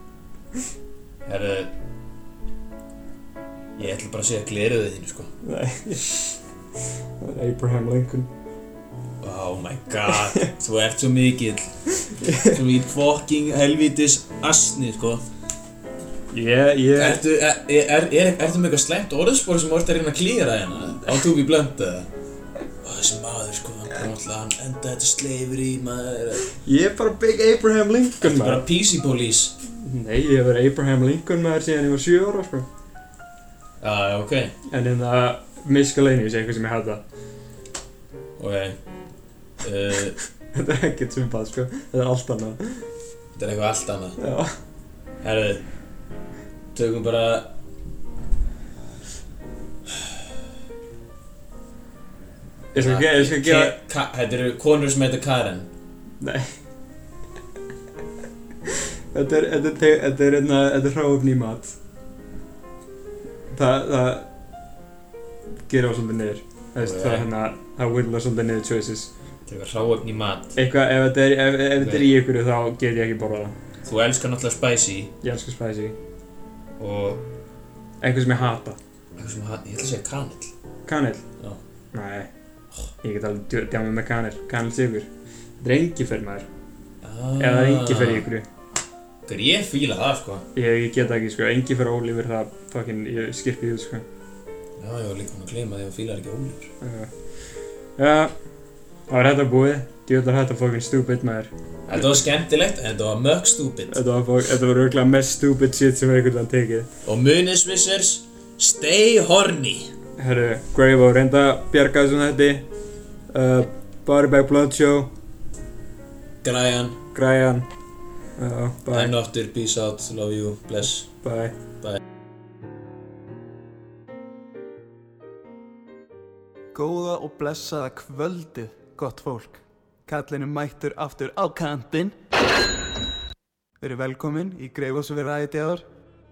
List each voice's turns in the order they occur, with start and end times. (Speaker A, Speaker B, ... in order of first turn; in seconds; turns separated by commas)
Speaker A: 1.2-1.7, Speaker A: 3.8-5.3, Speaker B: 5.4-6.4, Speaker B: 7.2-8.3, Speaker A: 9.2-11.8, Speaker B: 12.0-12.6, Speaker A: 12.3-15.2, Speaker B: 16.3-17.2, Speaker A: 16.9-22.1, Speaker A: 22.8-26.4, Speaker B: 26.6-28.6, Speaker A: 28.2-29.6, Speaker B: 29.6-32.7, Speaker A: 33.8-34.5, Speaker B: 34.7-37.0, Speaker A: 38.4-38.8, Speaker A: 39.6-40.1, Speaker B: 40.5-42.9, Speaker A: 43.3-44.2, Speaker B: 44.2-44.5, Speaker A: 45.2-45.6, Speaker A: 46.7-47.5, Speaker B: 52.7-53.8, Speaker A: 52.7-55.7, Speaker B: 56.2-56.5, Speaker B: 58.7-61.7, Speaker B: 63.5-64.3, Speaker B: 65.7-69.1, Speaker A: 66.8-67.3, Speaker A: 69.5-70.5, Speaker B: 70.5-73.5, Speaker A: 71.8-72.1, Speaker A: 73.8-75.1, Speaker B: 75.2-76.0, Speaker A: 76.8-77.2, Speaker B: 78.0-78.8, Speaker A: 79.2-80.5, Speaker B: 80.9-81.3, Speaker B: 81.9-82.3, Speaker B: 83.0-85.1, Speaker B: 85.6-86.5, Speaker A: 87.0-88.3, Speaker B: 87.4-88.5, Speaker A: 89.3-90.4, Speaker B: 90.5-94.0, Speaker A: 94.8-96.7, Speaker B: 96.8-98.3, Speaker B: 99.1-102.2, Speaker A: 101.9-104.0, Speaker B: 103.9-106.9, Speaker A: 107.0-109.9, Speaker B: 110.2-112.7, Speaker B: 113.3-115.1, Speaker A: 116.4-117.0, Speaker B: 117.1-117.7, Speaker B: 118.4-119.1, Speaker A: 118.9-121.2, Speaker B: 121.2-121.5, Speaker C: 126.7-132.2, Speaker C: 133.8-135.8